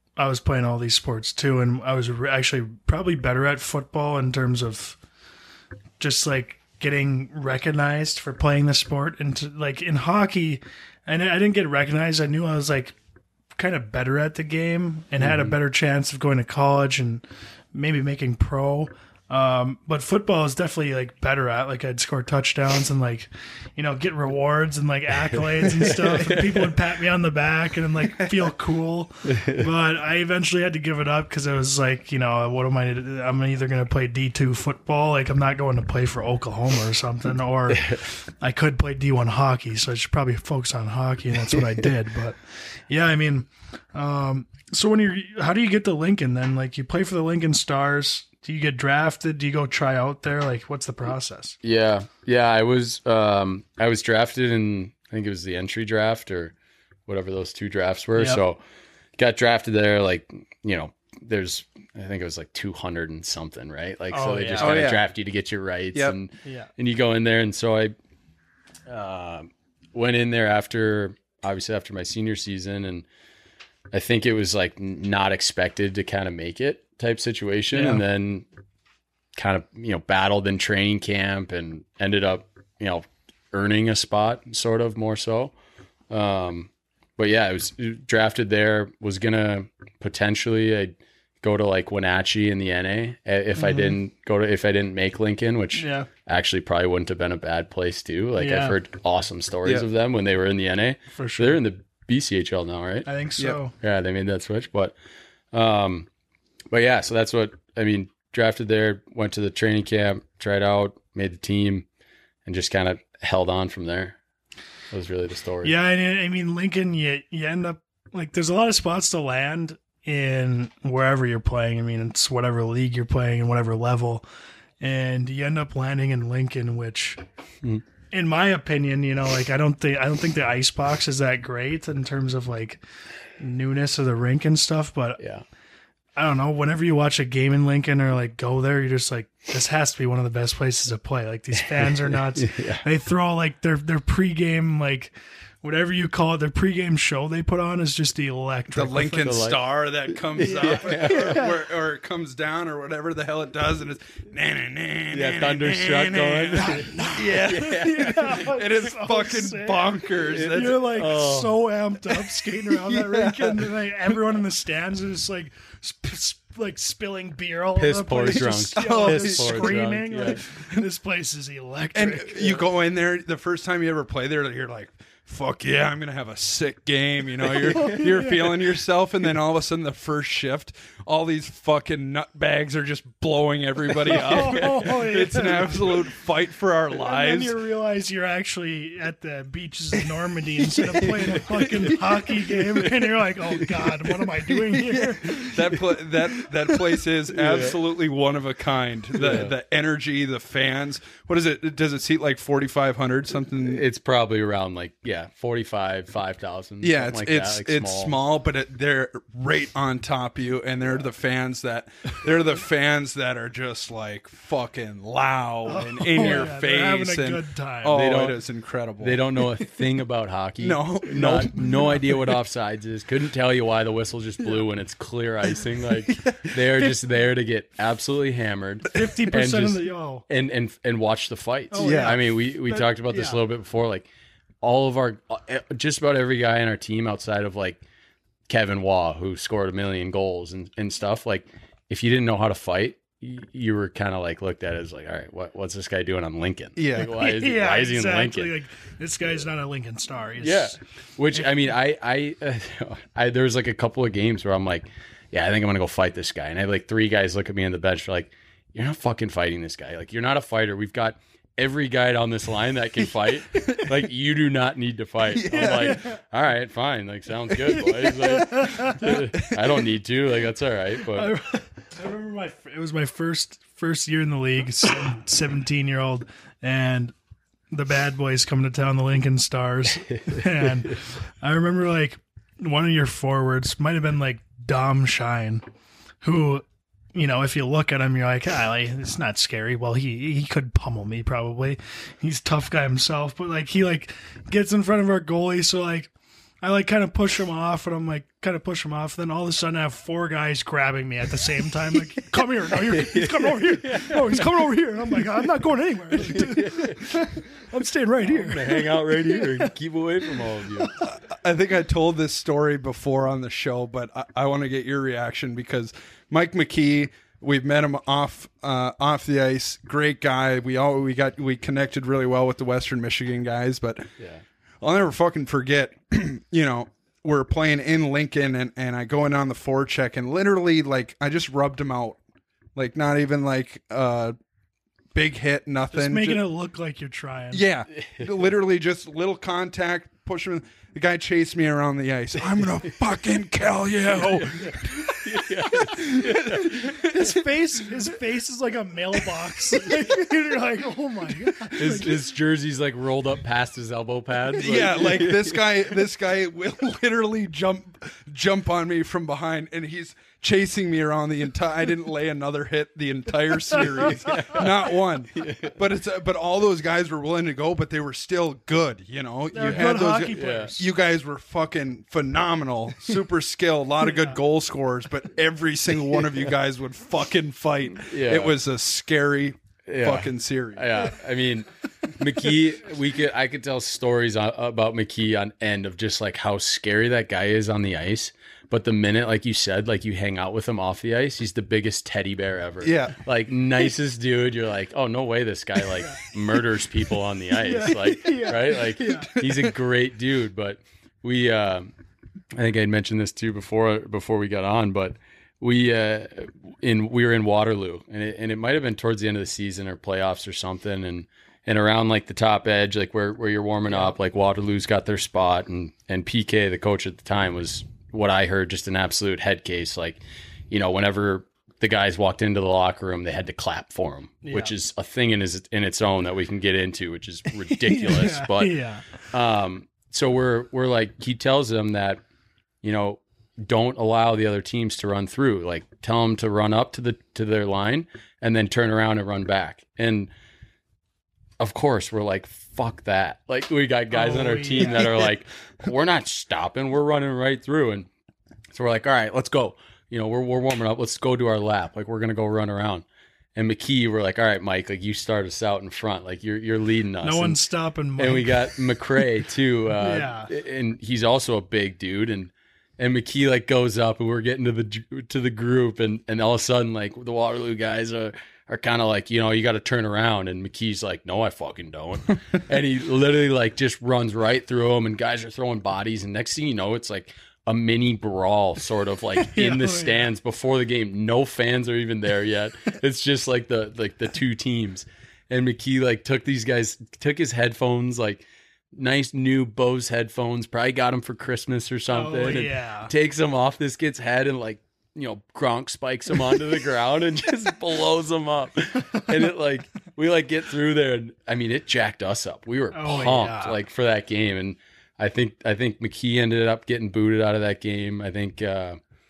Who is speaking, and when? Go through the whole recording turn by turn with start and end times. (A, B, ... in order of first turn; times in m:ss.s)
0:00.2-0:05.0 A
0:06.0-0:12.9 A
0:13.5-0:17.2 A
0:15.2-0:15.5 B
0:17.7-0:42.4 A
0:25.6-0:26.8 B
0:29.3-0:29.6 B
0:37.7-0:38.0 B
0:42.9-0:51.6 A
0:51.6-0:56.5 B
0:57.1-0:58.6 B
0:58.2-0:58.4 A
0:59.2-1:07.9 B
1:04.1-1:04.9 A
1:04.6-1:05.0 C
1:06.4-1:06.7 A
1:08.9-1:13.0 B
1:13.9-1:18.4 B
1:17.7-1:18.0 A
1:19.4-1:25.5 B
1:26.1-1:43.1 B
1:33.6-1:34.0 A
1:35.7-1:36.1 A
1:38.4-1:38.7 A
1:41.1-1:41.6 A
1:43.0-1:43.7 A
1:43.8-1:44.9 B
1:45.5-1:46.1 B
1:46.7-1:51.8 B
1:52.4-1:54.2 B
1:54.9-1:55.7 B
1:55.6-2:04.2 A
2:04.8-2:07.2 A
2:08.1-2:12.8 A
2:13.4-2:15.2 A
2:15.2-2:15.4 B
2:16.2-2:29.4 A
2:21.5-2:22.8 B
2:28.7-2:40.9 C
2:29.0-2:29.6 B
2:30.4-2:31.4 B
2:30.4-2:31.6 A
2:35.1-2:38.2 B
2:36.6-2:52.6 A
2:40.3-2:41.6 B
2:42.6-2:43.7 C
2:47.8-2:50.4 B
2:48.4-2:49.8 C
2:51.9-3:07.5 C
2:57.7-2:58.5 A
3:04.0-3:05.9 A
3:04.1-3:04.8 B
3:07.0-3:15.5 A
3:11.0-3:12.0 C
3:12.6-3:13.9 B
3:14.5-3:23.8 C
3:17.3-3:17.8 B
3:19.1-3:19.5 B
3:23.6-3:28.2 B
3:26.8-3:39.6 C
3:35.6-3:38.0 A
3:37.9-3:38.4 B
3:39.0-3:54.1 B
3:40.6-3:42.2 C
3:48.9-3:50.2 A
3:51.7-3:53.4 A
3:51.8-3:52.2 C
3:54.6-3:57.8 B
3:58.5-4:08.5 B
4:06.8-4:07.1 C
4:07.0-4:10.8 A
4:10.4-4:31.3 B
4:23.5-4:23.9 C
4:25.3-4:26.1 C
4:27.8-4:29.2 A
4:31.1-4:37.1 A
4:37.7-4:45.6 A
4:40.1-4:40.7 B
4:46.2-4:56.1 A
4:56.6-5:09.7 A
5:02.9-5:04.6 B
5:06.1-5:07.1 B
5:08.2-5:10.9 B
5:11.0-5:24.1 C
5:24.8-5:32.2 C
5:32.8-5:34.3 C
5:35.1-5:36.4 C
5:35.9-5:37.6 A
5:37.5-5:47.4 C
5:37.9-5:38.5 B
5:42.4-5:43.0 B
5:44.2-5:47.0 B
5:47.0-5:52.2 A
5:51.8-5:55.6 B
5:54.6-6:21.0 C
6:04.1-6:04.7 B
6:05.3-6:05.8 B
6:09.5-6:10.8 A
6:09.6-6:10.8 B
6:18.0-6:18.6 B
6:19.9-6:41.9 B
6:32.8-6:33.2 C
6:37.6-6:39.3 A
6:39.3-6:39.7 C
6:42.5-7:00.2 B
7:00.7-7:08.8 B
7:04.4-7:04.7 A
7:07.9-7:09.0 A
7:09.3-7:12.2 B
7:12.8-7:20.3 B
7:21.6-7:28.1 B
7:24.1-7:25.0 A
7:28.7-7:33.0 B
7:33.6-7:37.6 B
7:37.2-7:38.7 A
7:38.2-8:29.0 B
7:40.0-7:40.5 A
7:59.4-8:00.3 A
8:12.1-8:13.1 A
8:22.9-8:23.8 A